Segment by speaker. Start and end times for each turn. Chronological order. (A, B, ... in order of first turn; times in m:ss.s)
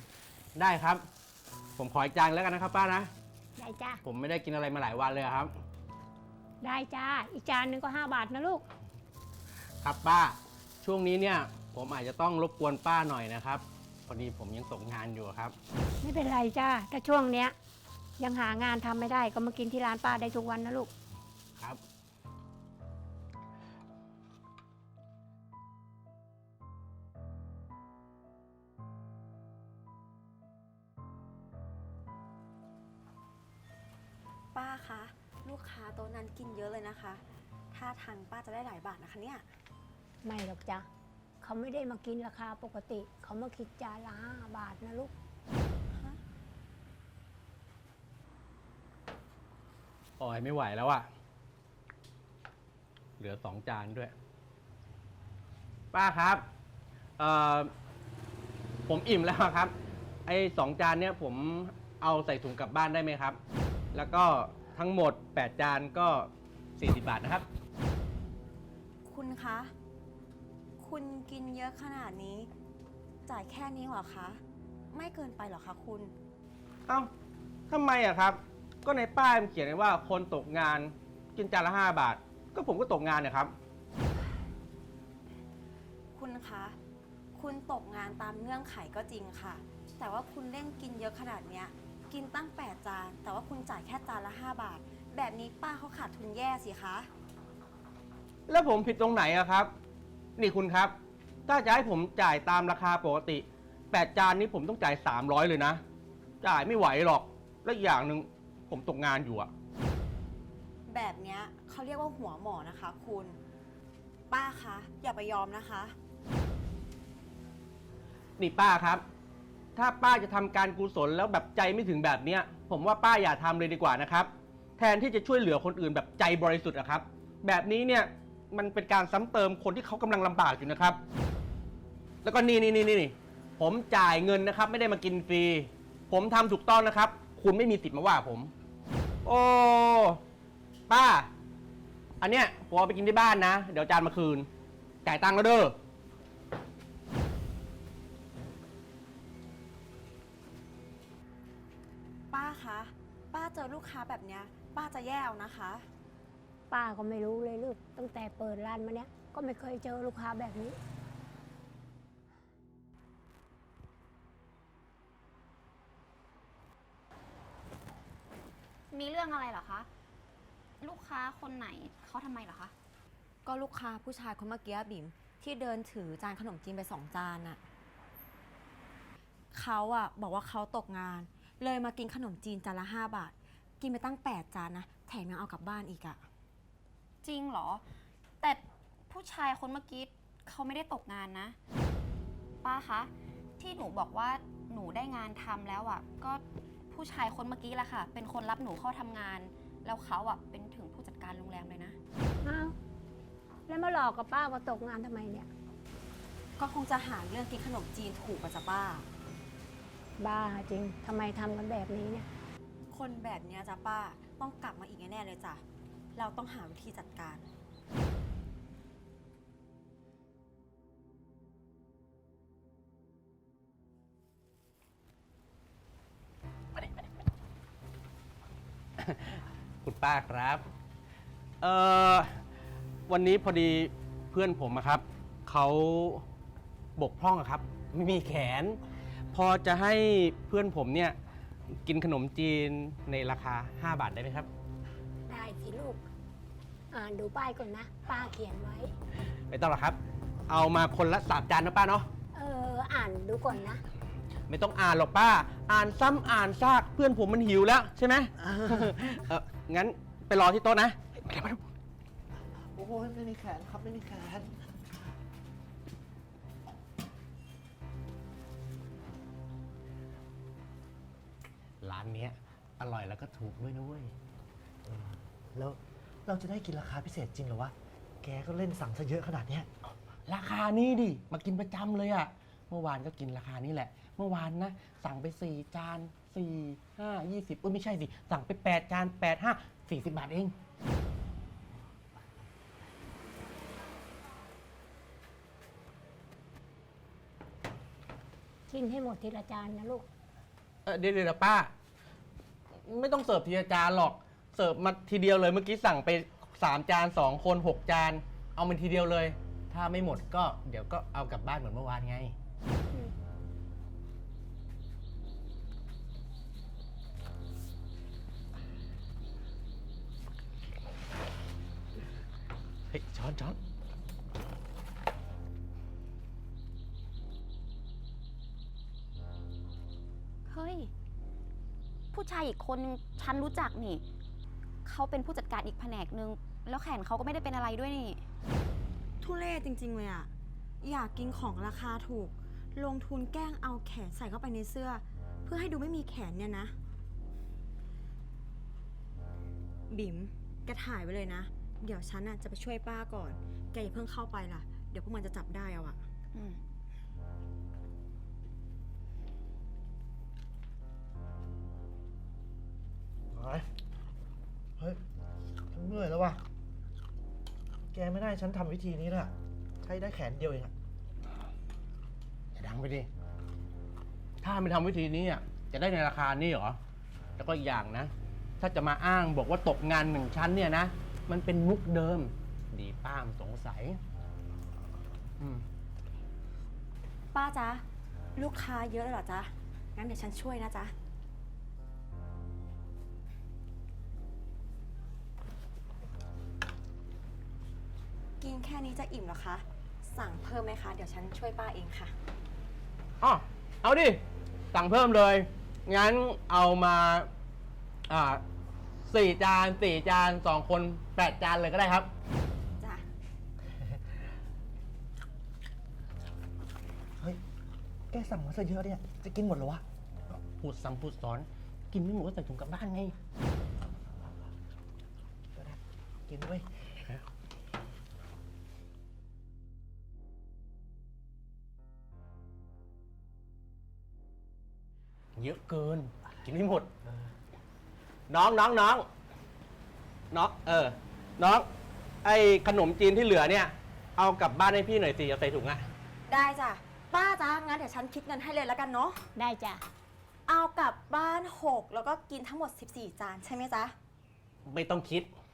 0:00.6-0:01.0 A
0:01.8-0:03.1 A
0:03.6-0:04.0 B
0:04.0-0:05.5 A
0:06.6-0:08.6 B
0:09.8-0:15.6 A
0:16.0-0:17.6 B
0:18.2-0:20.9 B
0:34.5-0:39.4 C
0:40.2-0:40.9 B
0:41.4-0:45.1 B
0:45.9-0:46.2 C
0:50.2-0:51.1 A
0:53.2-0:54.1 A
0:55.9-0:56.4 A
0:57.2-0:57.7 A
0:58.9-0:59.7 A
1:00.3-1:03.4 A
1:03.9-1:07.5 A
1:09.0-1:09.7 C
1:10.8-1:12.5 C
1:13.3-1:14.4 C
1:14.9-1:16.1 C
1:17.7-1:23.5 A
1:26.1-1:26.8 C
1:27.3-1:37.1 C
1:38.5-1:39.7 A
1:40.4-1:40.9 A
1:41.5-1:45.8 A
1:46.4-1:49.5 A
1:50.9-1:53.4 C
1:54.3-1:56.0 C
1:58.4-1:59.0 A
1:59.8-2:11.0 A
2:12.2-2:18.5 A
2:19.2-2:20.2 A
2:20.9-2:21.3 A
2:22.2-2:24.5 A
2:25.0-2:25.8 A
2:32.3-2:35.9 C
2:36.7-2:40.8 B
2:48.9-2:49.9 D
2:50.8-2:52.7 D
2:53.4-2:57.6 C
2:59.5-3:06.2 C
3:07.2-3:07.8 D
3:08.4-3:11.6 D
3:12.6-3:22.0 D
3:22.4-3:22.8 B
3:23.7-3:25.5 B
3:26.6-3:29.1 C
3:30.2-3:32.3 B
3:32.9-3:35.6 C
3:36.2-3:37.5 C
3:49.0-3:50.7 A
3:51.6-3:52.3 A
3:53.1-3:56.2 A
3:57.0-3:58.8 A
3:59.3-4:01.2 A
4:01.8-4:04.5 A
4:05.3-4:06.0 B
4:06.9-4:08.9 B
4:09.5-4:10.0 A
4:10.5-4:12.1 A
4:12.3-4:13.8 B
4:14.5-4:21.6 A
4:22.8-4:24.5 E
4:31.8-4:34.1 A
4:34.8-4:39.7 E
4:40.3-4:50.5 A
4:58.7-5:00.1 B
5:00.9-5:01.7 A
5:02.9-5:12.3 A
5:22.9-5:23.6 A
5:30.5-5:30.9 D
5:32.1-5:34.0 D
5:34.9-5:38.2 D
5:39.2-5:46.8 C
5:49.9-5:56.0 C
5:56.3-5:56.6 D
6:03.3-6:03.7 E
6:05.7-6:06.4 E
6:07.9-6:10.7 E
6:12.6-6:13.1 A
6:14.4-6:16.8 A
6:17.4-6:24.0 A
6:27.3-6:27.8 C
6:28.4-6:30.9 C
6:38.4-6:42.1 C
6:43.2-6:44.2 A
6:44.7-6:47.3 A
6:48.1-6:48.4 A
6:49.1-6:52.1 A
6:52.8-6:53.0 C
6:58.1-6:59.8 E
7:00.4-7:03.2 A
7:05.6-7:06.7 E
7:15.4-7:16.9 A
7:18.3-7:19.1 A
7:20.3-7:21.7 A
7:22.2-7:25.8 A
7:26.3-7:29.2 C
7:29.4-7:29.8 B
7:30.5-7:34.0 C
7:34.7-7:35.3 A